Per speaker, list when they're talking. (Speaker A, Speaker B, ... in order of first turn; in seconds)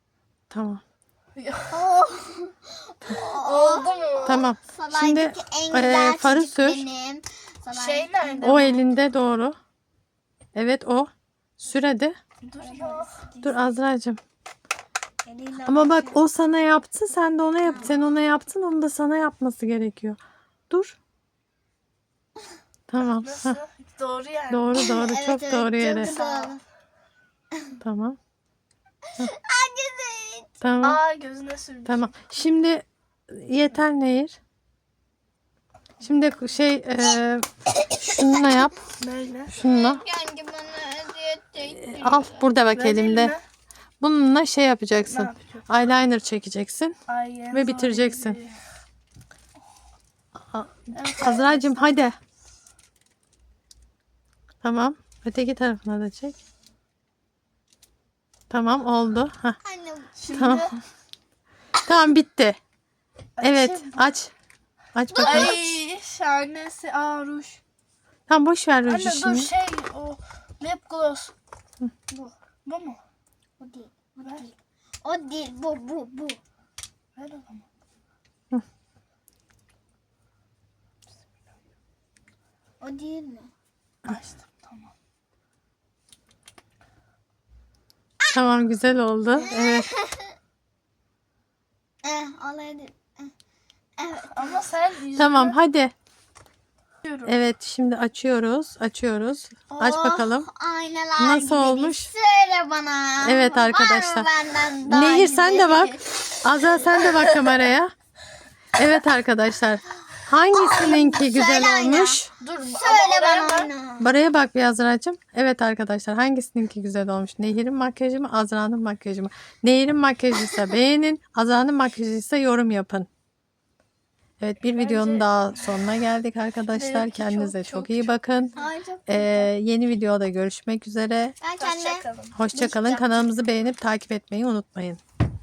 Speaker A: 0.5-0.8, 4.2-6.8, 8.4-9.6, 10.5-12.2, 13.4-14.2, 15.6-20.2, 20.7-21.0, 22.9-23.6, 24.5-26.1, 27.8-28.2, 30.6-31.0, 31.9-34.4, 36.0-38.8, 39.5-40.0, 41.6-43.4, 44.0-46.9, 47.5-48.4, 50.5-52.1, 54.6-56.4, 58.5-59.6, 60.3-60.7, 61.8-62.6, 63.4-64.3, 64.9-65.5, 68.3-69.5, 88.3-89.9, 95.2-95.9, 97.2-100.5, 101.2-102.1, 103.2-104.3, 104.8-107.9, 108.8-112.3, 114.0-123.1, 124.4-131.4, 132.4-135.0
Speaker B: 1.4-1.8, 3.1-4.5, 7.7-8.7, 12.4-13.4, 23.0-24.9, 25.8-26.6, 30.8-32.2, 39.0-39.6, 42.8-43.4, 45.0-45.7, 47.1-48.6, 50.9-51.9, 60.2-60.8, 63.4-64.1, 65.2-67.6, 68.9-71.3, 72.6-73.0, 77.2-77.6, 84.0-84.9, 94.3-95.6, 97.0-97.3, 112.4-113.7, 124.6-125.3, 126.7-128.2, 131.6-132.9
Speaker C: 1.7-8.8, 12.6-13.5, 15.2-16.2, 17.6-18.0, 24.8-26.6, 29.2-30.5, 39.5-42.5, 59.6-60.6, 65.1-65.7, 73.6-76.4, 82.8-83.5, 89.4-90.4, 92.0-93.3, 94.0-94.7, 99.7-106.0, 110.6-112.2, 112.7-114.1, 128.6-129.5, 131.4-133.1